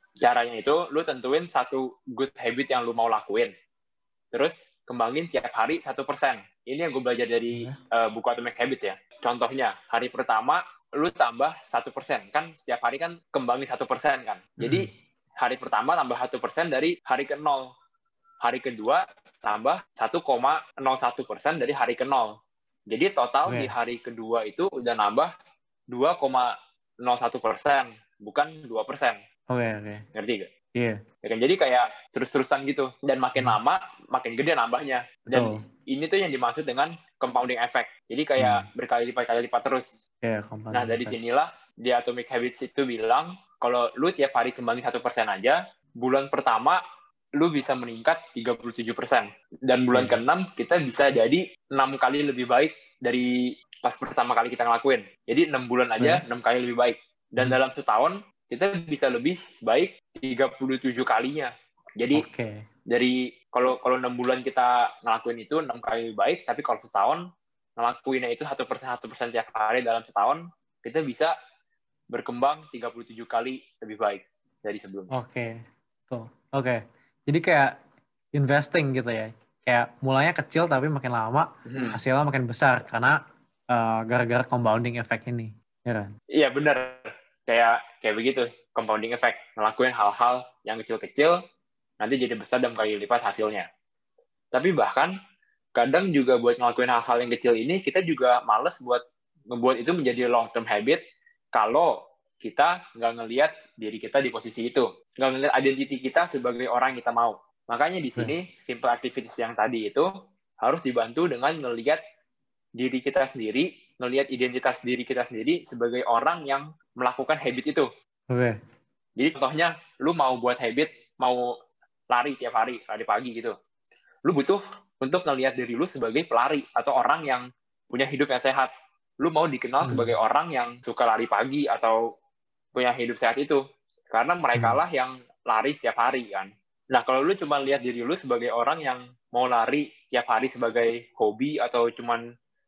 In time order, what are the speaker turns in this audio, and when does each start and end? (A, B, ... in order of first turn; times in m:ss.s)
0:00.2-0:03.5 A
0:04.3-0:14.9 A
0:07.5-0:07.8 B
0:14.6-0:14.9 B
0:15.4-0:17.7 A
0:18.4-0:22.3 A
0:22.9-0:25.3 A
0:23.4-0:23.7 B
0:25.9-0:29.2 A
0:29.5-0:30.0 B
0:30.1-0:30.5 A
0:31.2-0:39.9 A
0:35.3-0:35.6 B
0:38.4-0:38.6 B
0:40.2-0:41.2 B
0:40.7-0:46.8 A
0:47.4-1:02.2 A
0:49.9-0:50.2 B
1:02.1-1:02.6 B
1:02.9-1:07.2 A
1:07.8-1:11.3 A
1:12.1-1:15.1 A
1:15.1-1:17.7 B
1:18.3-1:23.2 B
1:21.6-1:22.0 A
1:23.7-1:26.1 B
1:26.3-1:31.4 A
1:32.0-1:33.7 A
1:34.5-1:35.1 A
1:35.8-1:41.0 A
1:41.5-1:50.1 A
1:50.6-1:52.0 A
1:52.8-1:57.9 A
1:58.3-1:58.6 B
1:59.2-2:01.5 A
2:02.1-2:03.5 A
2:04.2-2:08.7 A
2:09.2-2:12.0 A
2:09.8-2:10.2 B
2:12.7-2:22.2 A